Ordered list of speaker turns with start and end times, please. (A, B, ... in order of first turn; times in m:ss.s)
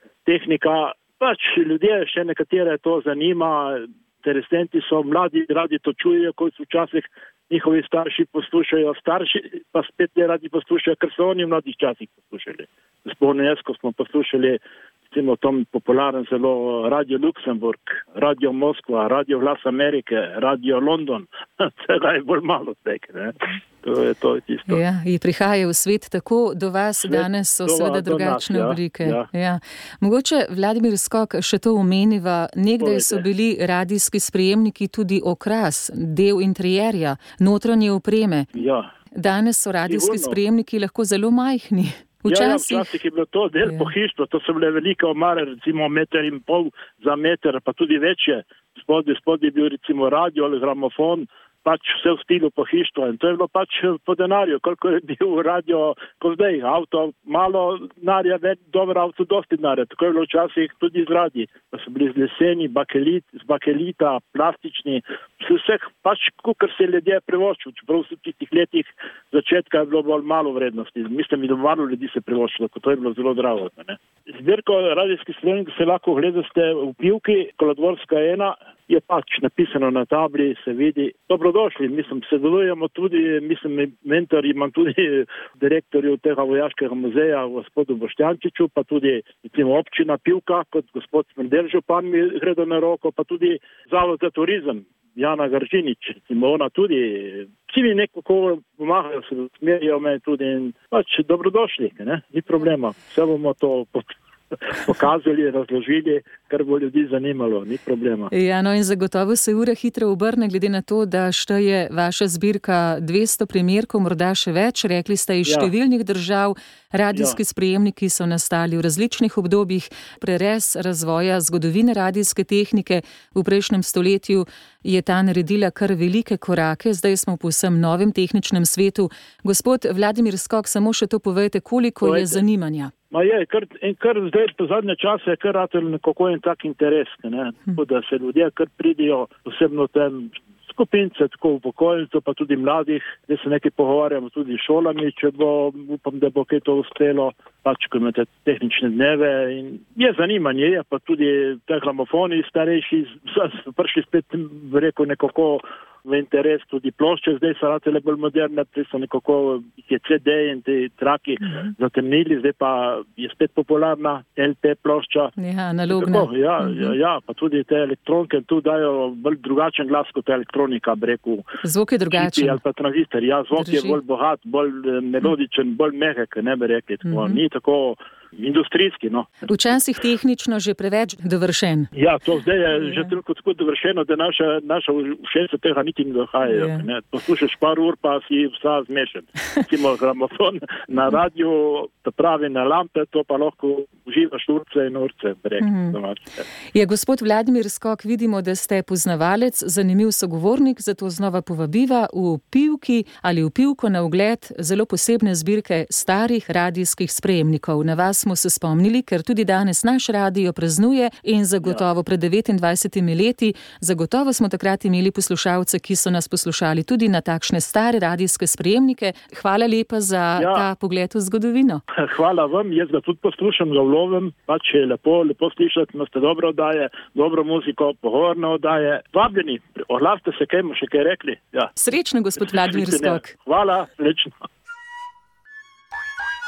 0:00.2-0:24.8 A
0:24.7-0:38.5 B
0:27.0-0:29.2 A
0:32.8-0:33.3 A
0:38.5-0:38.9 A
0:39.1-0:43.0 B
0:39.8-0:40.4 A
0:42.2-1:48.3 A
0:43.6-0:43.9 B
1:48.3-2:12.9 B
1:55.4-1:55.7 A
1:57.1-1:57.4 A
2:12.0-2:12.4 A
2:13.1-2:45.3 A
2:45.4-2:47.0 B
2:45.9-2:51.4 A
2:51.6-2:52.6 B
2:52.1-2:59.3 A
2:53.5-2:54.0 B
2:57.0-2:57.4 B
2:59.4-3:01.9 B
3:01.9-3:16.4 A
3:06.4-3:06.8 B
3:15.6-3:16.0 B
3:16.7-3:41.8 B
3:40.4-3:40.7 A
3:42.0-3:51.7 A
3:51.8-3:53.3 B
3:52.4-3:54.3 A